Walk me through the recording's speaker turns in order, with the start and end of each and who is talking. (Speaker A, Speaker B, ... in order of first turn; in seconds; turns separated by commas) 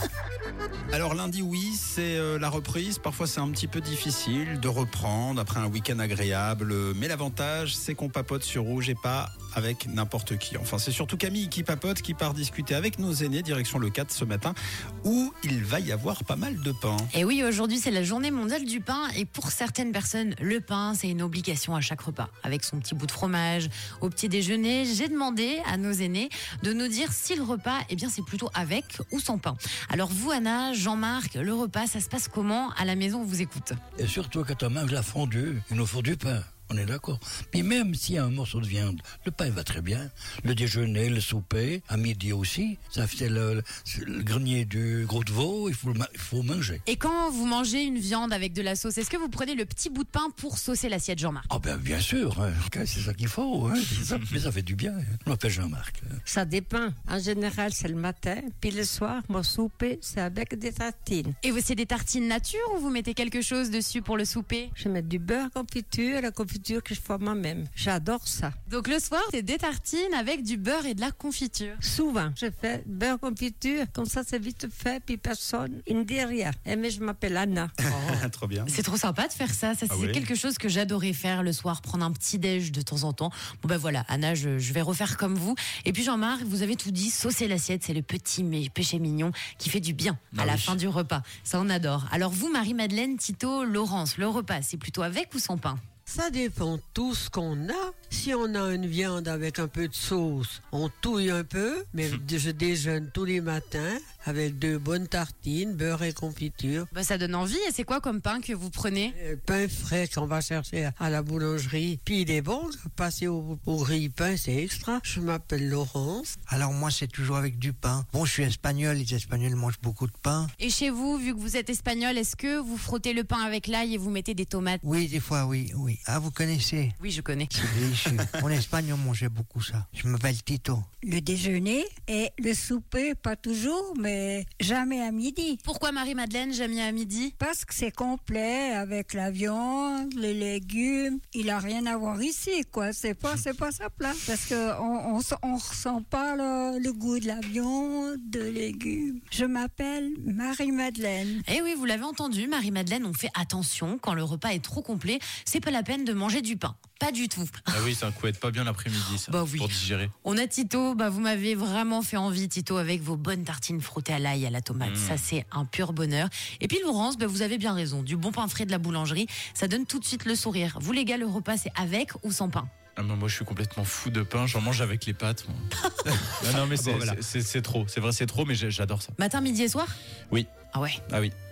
Speaker A: 0.9-17.1, Speaker B: 17.1-33.8, Speaker C: 34.0-46.8, Speaker B: 46.9-51.5, Speaker C: 51.5-56.2, Speaker D: 56.3-61.4, Speaker B: 61.4-64.7, Speaker D: 64.8-68.5, Speaker B: 68.7-71.8, Speaker D: 71.8-78.2, Speaker A: 77.8-78.8, Speaker B: 78.7-95.8, Speaker A: 79.9-80.3, Speaker E: 90.3-90.8, Speaker F: 96.1-106.9, Speaker B: 106.9-109.2, Speaker F: 109.1-116.3, Speaker G: 116.5-120.5, Speaker B: 120.6-124.8, Speaker G: 124.8-127.0, Speaker B: 127.0-127.5, Speaker G: 127.5-130.9, Speaker H: 131.0-135.6, Speaker B: 135.6-137.3, Speaker H: 137.4-151.4, Speaker B: 151.4-157.8, Speaker E: 157.7-160.1, Speaker B: 159.3-172.7, Speaker E: 164.8-165.2, Speaker E: 173.0-179.2, Speaker A: 176.7-177.2, Speaker B: 179.2-180.0, Speaker B: 180.7-181.0, Speaker E: 181.1-181.3